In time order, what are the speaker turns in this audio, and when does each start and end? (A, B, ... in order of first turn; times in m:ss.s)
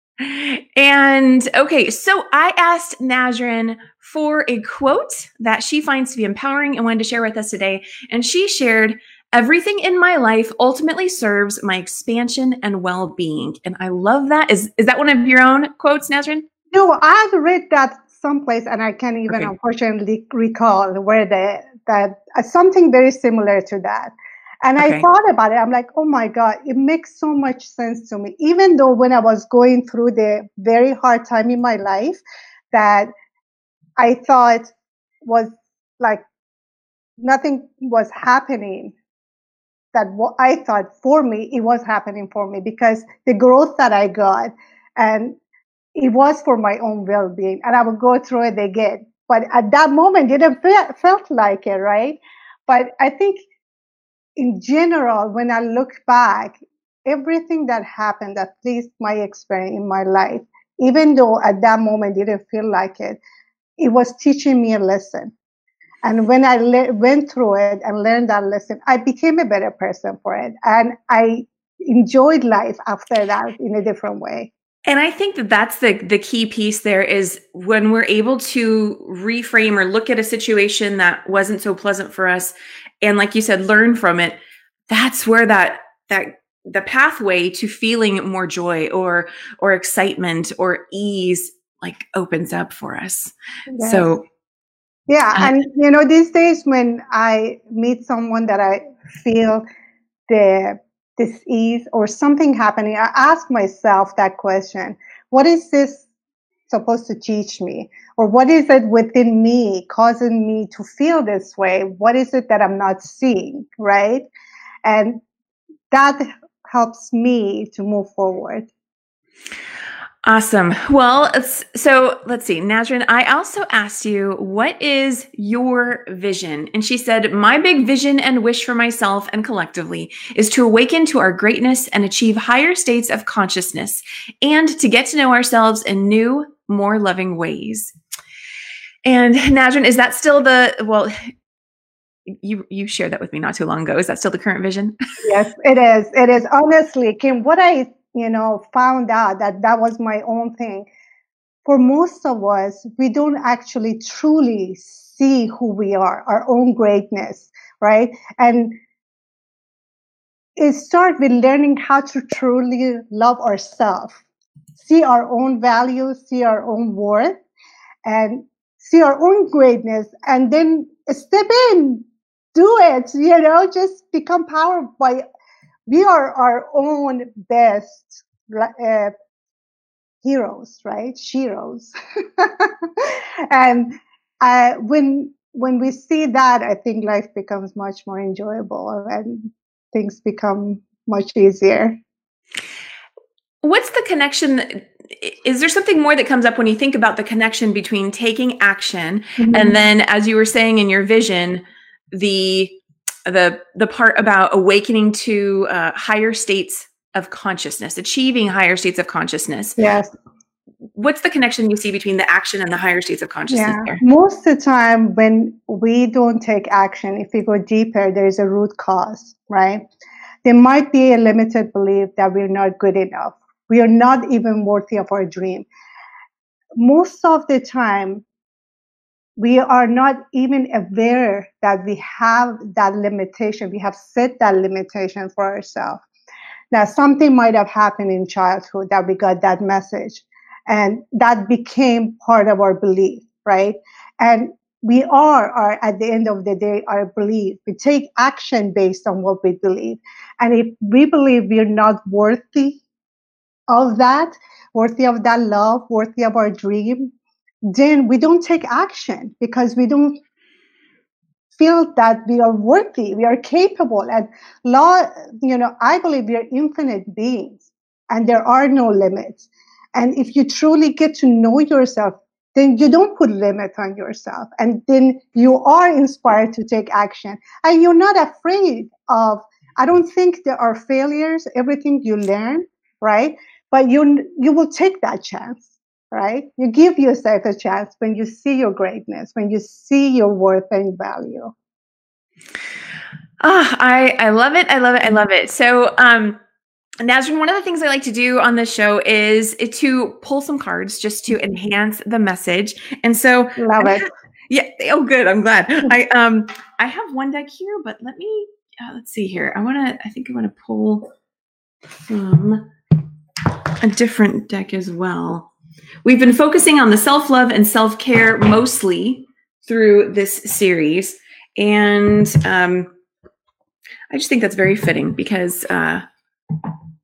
0:00.2-0:16.4 A
0:16.7-0:24.1 B
0:24.6-0:32.2 B
0:24.8-0:25.0 A
0:32.7-0:33.1 B
0:34.0-0:34.7 B
0:35.2-0:36.2 B
0:37.2-0:38.9 B
0:39.9-0:45.4 B
0:45.9-0:53.4 B
0:54.4-1:03.2 B
1:03.8-1:05.3 B
1:06.0-1:14.5 B
1:14.8-1:24.4 A
1:24.9-1:34.2 A
1:33.7-1:34.1 B
1:35.1-1:39.6 B
1:40.3-1:46.0 B
1:46.7-1:54.2 B
1:54.8-1:55.2 B
1:55.9-1:58.7 B
2:00.2-2:17.9 A
2:19.0-2:21.1 A
2:22.3-2:24.9 A
2:25.2-2:30.9 B
2:31.6-2:38.8 B
2:40.6-2:44.2 B
2:44.8-2:47.4 B
2:48.0-2:52.0 B
2:52.5-2:55.2 B
2:55.9-2:59.1 B
3:00.2-3:12.0 B
3:13.6-3:29.8 A
3:19.4-3:19.8 B
3:29.8-3:30.1 B
3:31.0-3:34.0 A
3:33.5-3:39.8 B
3:40.4-3:45.7 B
3:46.8-3:48.2 B
3:49.4-3:56.0 B
3:56.7-4:12.8 B
4:13.7-4:17.1 B
4:17.7-4:20.2 B
4:21.5-4:51.5 B
4:53.4-4:56.4 A
4:57.0-5:11.1 A
5:03.6-5:04.1 B
5:12.1-5:12.7 A
5:13.8-5:15.5 A
5:16.0-5:22.9 A
5:24.1-5:26.0 A